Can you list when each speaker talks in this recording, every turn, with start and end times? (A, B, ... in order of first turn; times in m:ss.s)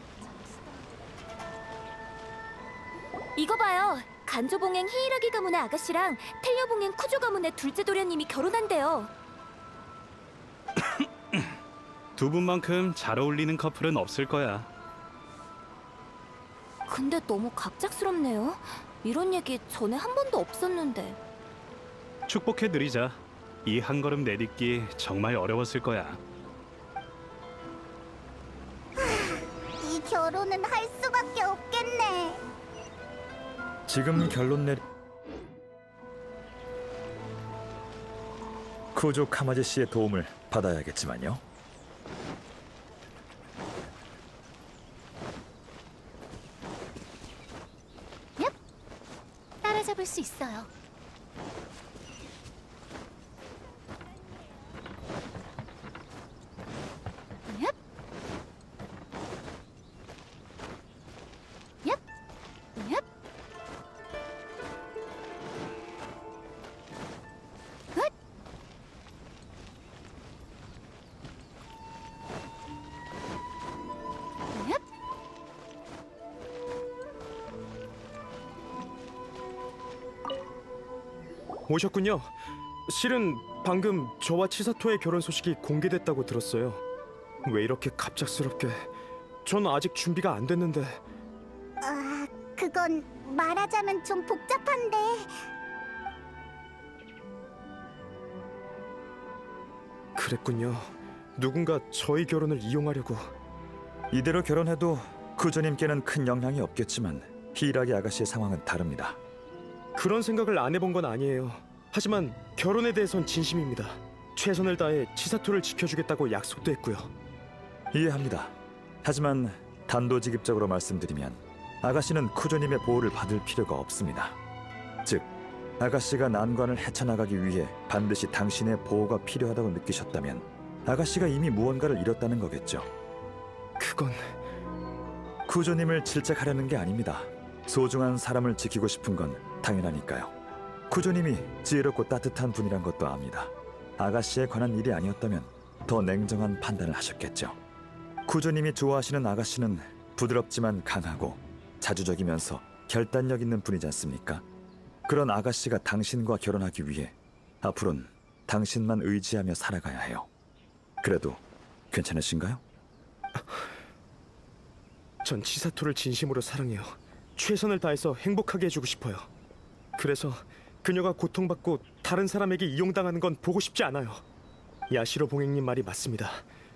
0:00.2-0:00.8 A
0:03.4-0:09.1 A
0:12.2-0:14.7 B
0:16.9-0:21.2 A
0:22.3-0:26.2 B
0:29.0-0:32.4 C
0:33.9-0:34.8 D
0:38.9-0:41.4 D
0:49.7-0:50.7 A
1:21.7-1:22.3 E
1:22.9-1:26.8 E
1:27.4-1:28.9 E
1:29.4-1:31.0 E
1:31.8-1:35.3 C
1:40.2-1:43.3 E
1:44.1-1:49.2 D
1:50.0-1:57.1 E
1:57.9-2:04.4 D
2:05.0-2:12.9 D
2:13.8-2:14.3 E
2:15.5-2:20.3 D
2:20.9-2:27.6 D
2:28.3-2:34.4 D
2:35.1-2:40.3 D
2:41.0-2:42.6 D
2:45.2-2:49.3 E
2:50.0-2:54.2 E
2:54.9-2:56.4 E